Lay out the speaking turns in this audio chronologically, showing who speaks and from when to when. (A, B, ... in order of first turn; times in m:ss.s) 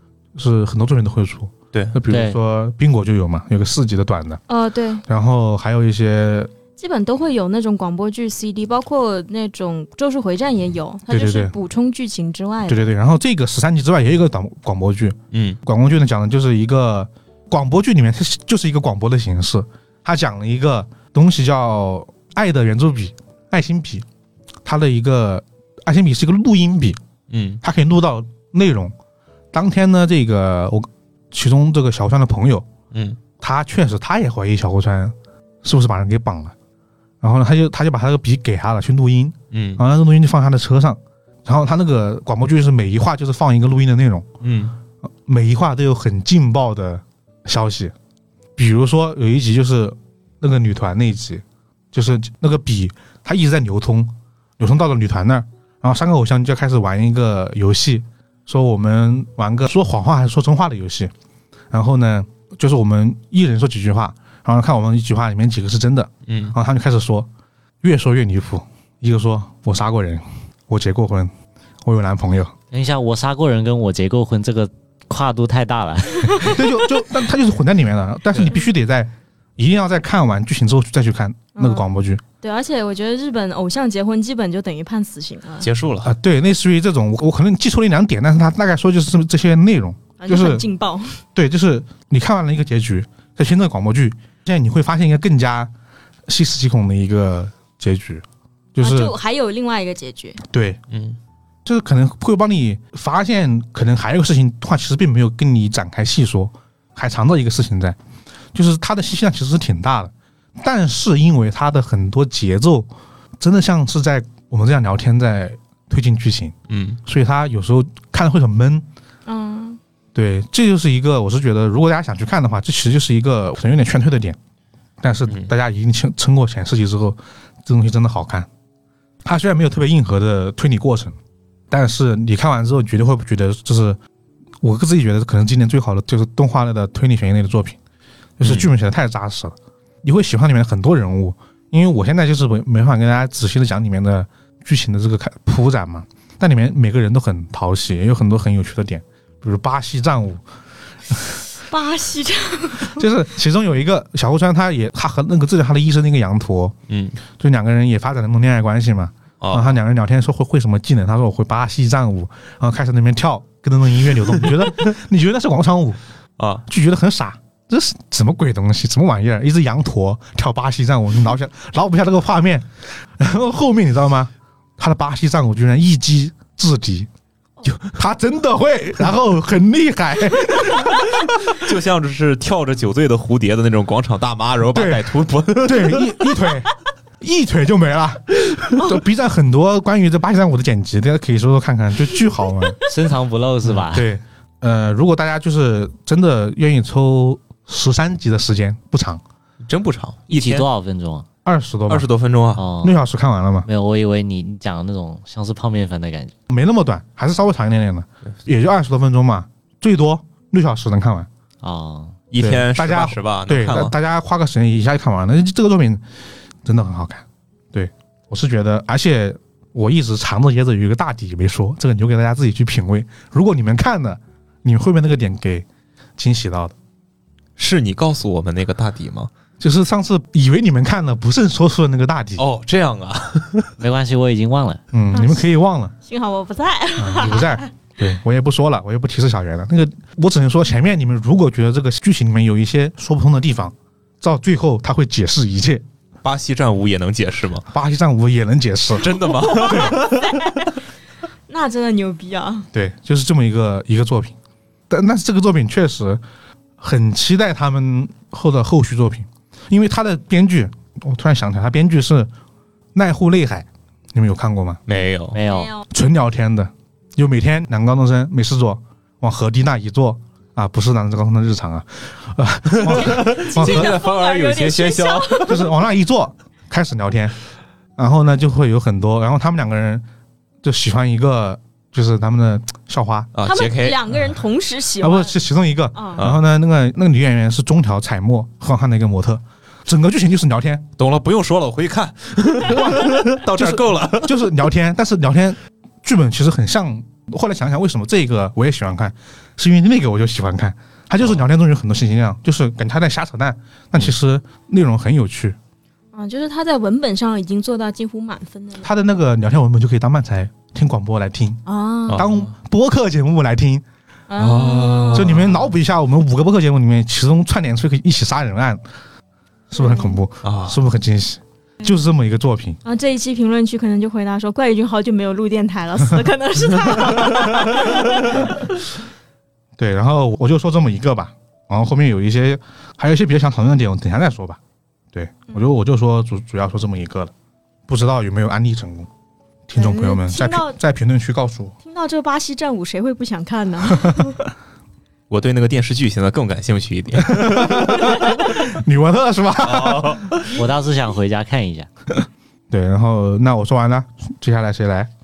0:00.4-0:04.4 A
0:02.1-0:02.4 B
0:04.5-0:05.0 C
0:05.0-0:06.5 A
0:06.8-0:12.9 C
0:11.1-0:11.6 A
0:12.7-0:24.1 A
0:15.3-0:15.6 D
0:24.6-0:27.0 A
0:27.3-0:27.6 D
0:27.6-0:28.9 A
0:29.5-0:32.7 A
0:32.9-0:33.2 D
0:33.4-0:36.5 A
0:37.2-0:44.3 A
0:39.5-0:39.8 D
0:44.4-0:44.8 D
0:45.3-0:47.9 A
0:48.6-1:01.1 A
1:01.7-1:07.3 A
1:06.3-1:06.6 D
1:07.8-1:11.3 A
1:11.8-1:12.5 A
1:12.7-1:16.6 B
1:16.4-1:22.2 A
1:21.6-1:21.9 C
1:22.4-1:25.7 C
1:25.6-1:26.1 D
1:26.0-1:30.7 A
1:30.2-1:31.2 C
1:31.4-1:35.7 A
1:36.3-1:38.2 A
1:38.8-1:39.2 A
1:38.8-1:40.4 C
1:40.4-1:40.8 A
1:40.9-1:41.2 D
1:41.6-1:48.0 A
1:48.5-1:52.9 A
1:53.4-1:56.5 A
1:56.7-1:57.0 D
1:57.1-1:58.8 A
1:59.3-1:59.8 C
2:00.2-2:04.4 A
2:05.0-2:08.5 A
2:09.2-2:11.2 A
2:11.7-2:14.0 A
2:14.6-2:17.8 A
2:18.4-2:30.4 A
2:18.4-2:18.7 D
2:31.7-2:33.0 C
2:32.8-2:36.8 A
2:36.9-2:37.2 D
2:37.4-2:46.0 A
2:39.4-2:39.8 D
2:46.4-2:46.6 D
2:46.7-2:57.1 A
2:57.6-3:01.6 A
3:01.0-3:06.4 D
3:04.7-3:12.8 A
3:12.9-3:14.1 B
3:13.7-3:19.2 A
3:19.6-3:20.7 D
3:20.3-3:21.3 B
3:21.4-3:22.1 A
3:21.9-3:22.6 D
3:22.6-3:23.0 B
3:22.8-3:23.7 A
3:23.7-3:26.3 B
3:26.5-3:31.3 A
3:31.6-3:32.1 B
3:32.3-3:33.9 D
3:32.4-3:36.0 A
3:36.6-3:45.7 A
3:46.2-3:46.8 A
3:47.6-3:49.3 D
3:49.6-3:52.4 A
3:52.4-3:53.7 D
3:53.8-3:54.8 B
3:54.9-3:55.9 A
3:55.1-3:55.5 C
3:56.0-3:57.7 C
3:57.0-4:05.8 A
4:06.2-4:07.7 D
4:07.7-4:10.1 A
4:09.0-4:10.5 D
4:09.3-4:10.7 C
4:11.5-4:12.7 C
4:12.7-4:14.4 A
4:14.9-4:16.2 A
4:16.8-4:22.3 A
4:22.9-4:24.8 A
4:24.9-4:25.4 D
4:25.3-4:25.7 B
4:25.4-4:25.8 C
4:25.9-4:34.0 A
4:32.7-4:35.6 D
4:32.8-4:35.6 C
4:35.5-4:37.4 A
4:38.0-4:40.0 A
4:40.6-4:43.3 A
4:43.3-4:44.0 D
4:43.4-4:45.3 C
4:45.0-4:50.9 A
4:46.0-4:46.2 C
4:51.0-4:54.4 D
4:52.7-5:05.6 A
5:06.1-5:08.9 C
5:08.8-5:13.8 A
5:11.7-5:12.3 C
5:12.1-5:12.5 D
5:14.3-5:15.4 C
5:14.4-5:15.7 D
5:15.1-5:18.8 A
5:19.7-5:22.8 A
5:19.8-5:20.2 C
5:20.4-5:20.8 D
5:22.8-5:28.6 C
5:29.8-5:34.6 A
5:35.1-5:37.3 A
5:37.9-5:39.1 A
5:39.7-5:41.8 A
5:39.8-5:40.8 C
5:41.8-5:44.4 C
5:44.0-5:44.3 A
5:45.3-5:48.2 D
5:47.2-5:50.3 A
5:49.6-5:50.5 D
5:50.5-5:51.9 B
5:52.7-5:55.1 A